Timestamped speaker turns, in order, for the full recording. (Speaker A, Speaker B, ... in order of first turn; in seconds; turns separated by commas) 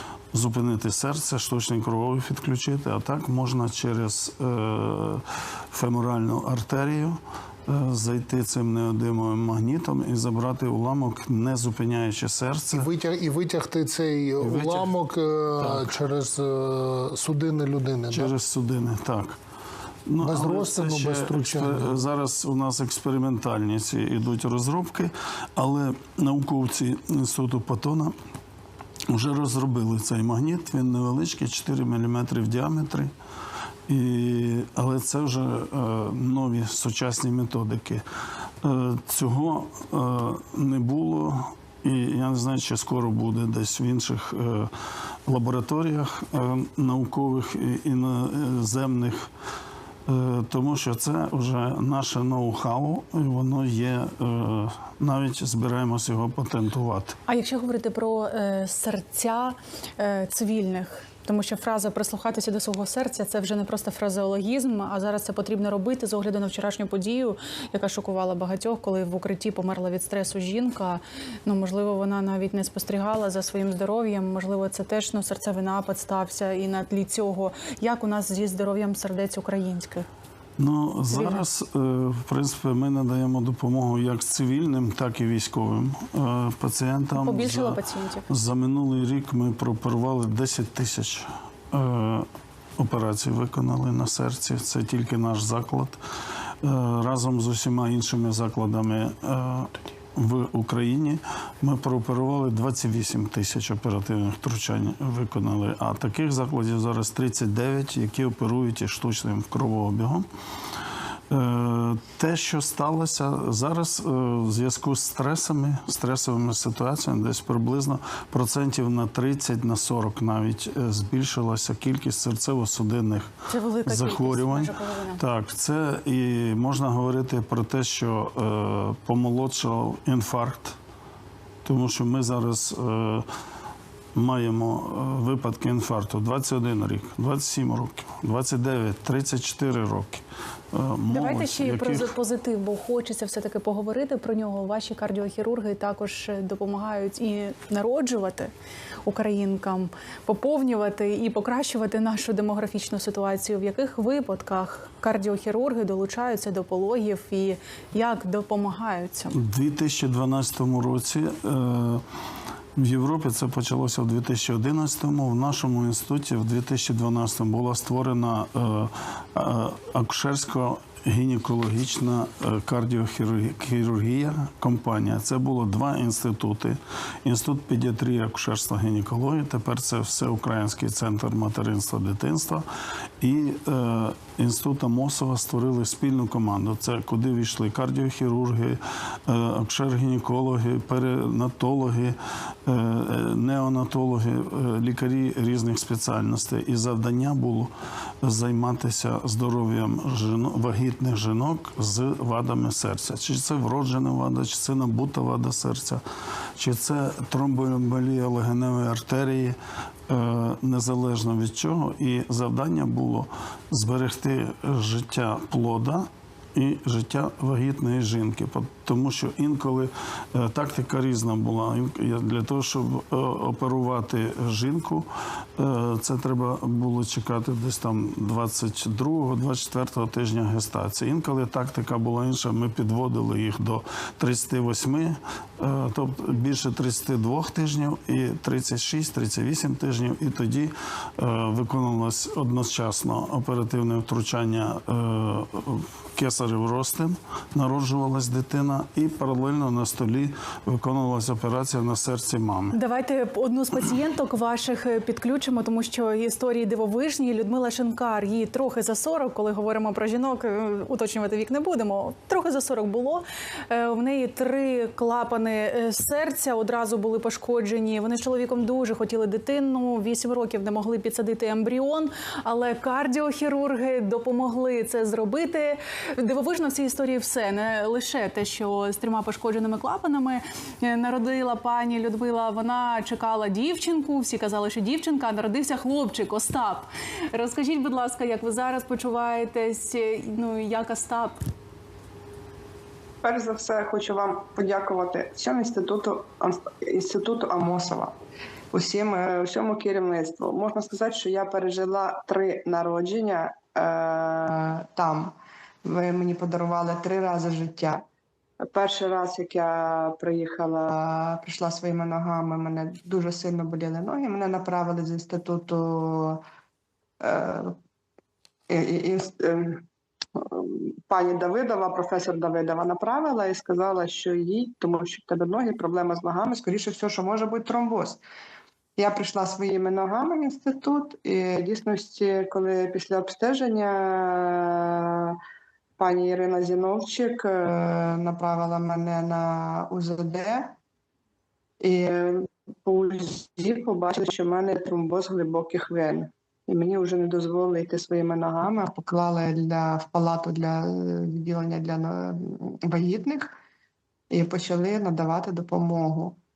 Speaker A: 0.3-12.9, Speaker B: 12.7-18.3, Speaker A: 14.4-14.9, Speaker A: 15.6-15.9, Speaker A: 18.1-19.4, Speaker A: 20.1-28.1, Speaker B: 20.2-22.0, Speaker A: 29.1-33.1, Speaker A: 33.9-38.0, Speaker A: 38.6-44.7, Speaker A: 45.3-49.3, Speaker A: 50.1-57.2, Speaker C: 57.3-80.1, Speaker A: 80.6-87.8, Speaker C: 81.1-81.4, Speaker C: 87.2-88.3, Speaker A: 88.3-92.3, Speaker A: 92.8-96.0, Speaker A: 96.6-110.2, Speaker A: 111.3-123.3, Speaker C: 123.5-125.2, Speaker A: 123.9-130.8, Speaker A: 131.7-133.3, Speaker A: 134.2-142.1, Speaker C: 141.1-148.5, Speaker C: 149.1-159.4, Speaker A: 159.3-162.0, Speaker A: 162.8-182.7, Speaker A: 183.2-206.0, Speaker A: 206.6-209.6, Speaker A: 210.1-252.8, Speaker C: 252.7-291.4, Speaker D: 293.2-298.2, Speaker D: 298.7-305.4, Speaker D: 305.9-308.0, Speaker D: 308.7-316.4, Speaker D: 317.2-317.7, Speaker D: 318.7-319.8, Speaker D: 320.4-328.2, Speaker D: 329.0-335.3, Speaker D: 336.0-340.8, Speaker D: 341.8-353.5, Speaker D: 354.3-356.4